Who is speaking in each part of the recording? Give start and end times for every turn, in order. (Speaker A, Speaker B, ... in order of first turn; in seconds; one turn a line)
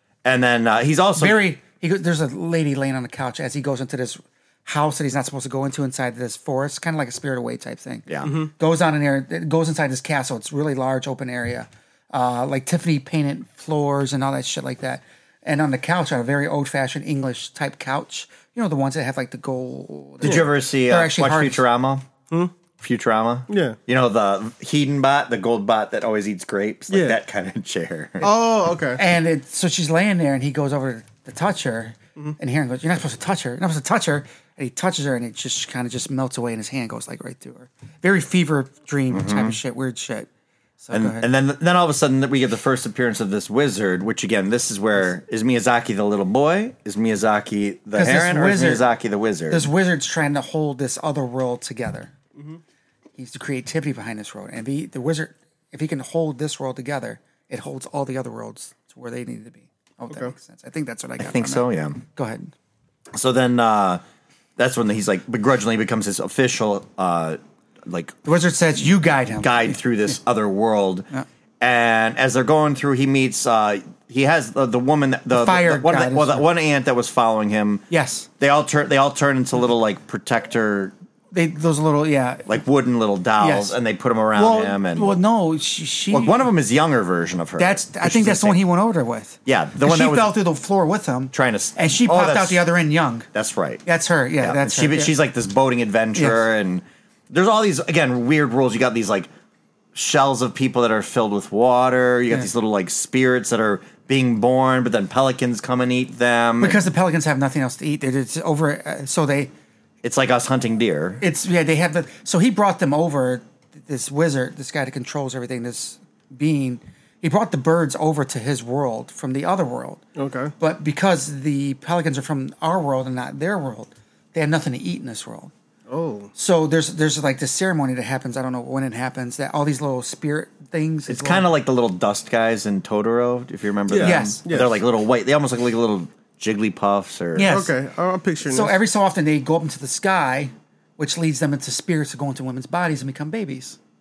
Speaker A: 0.2-1.4
Speaker B: 1.2-21.6
Speaker C: 8.2-8.5
Speaker A: 20.2-22.1
Speaker A: 22.8-28.3
Speaker C: 23.5-23.8
Speaker C: 26.9-27.2
Speaker C: 28.2-29.0
Speaker B: 28.9-40.3
Speaker A: 39.1-39.6
Speaker B: 40.8-41.2
Speaker A: 40.9-49.7
Speaker B: 47.9-48.9
Speaker B: 49.5-52.1
Speaker B: 53.2-62.5
Speaker A: 61.2-62.0
Speaker A: 63.1-64.0
Speaker A: 64.6-68.2
Speaker B: 68.2-69.8
Speaker A: 69.4-71.1
Speaker A: 71.6-77.8
Speaker B: 75.3-76.5
Speaker B: 77.9-78.3
Speaker A: 78.4-80.9
Speaker B: 81.3-82.5
Speaker A: 82.5-85.1
Speaker B: 83.4-83.7
Speaker B: 84.3-86.5
Speaker A: 86.1-88.6
Speaker B: 87.6-93.3
Speaker A: 89.5-90.4
Speaker A: 91.3-92.6
Speaker A: 93.3-93.8
Speaker B: 93.8-95.1
Speaker A: 94.4-99.3
Speaker B: 96.1-96.4
Speaker A: 99.9-106.8
Speaker B: 106.6-109.5
Speaker A: 110.0-111.2
Speaker B: 111.2-120.0
Speaker C: 120.2-120.5
Speaker B: 120.6-125.5
Speaker C: 125.9-126.3
Speaker B: 126.3-131.5
Speaker A: 131.1-137.6
Speaker C: 133.9-134.8
Speaker B: 134.0-134.4
Speaker B: 137.3-137.7
Speaker C: 137.5-138.8
Speaker B: 138.4-143.8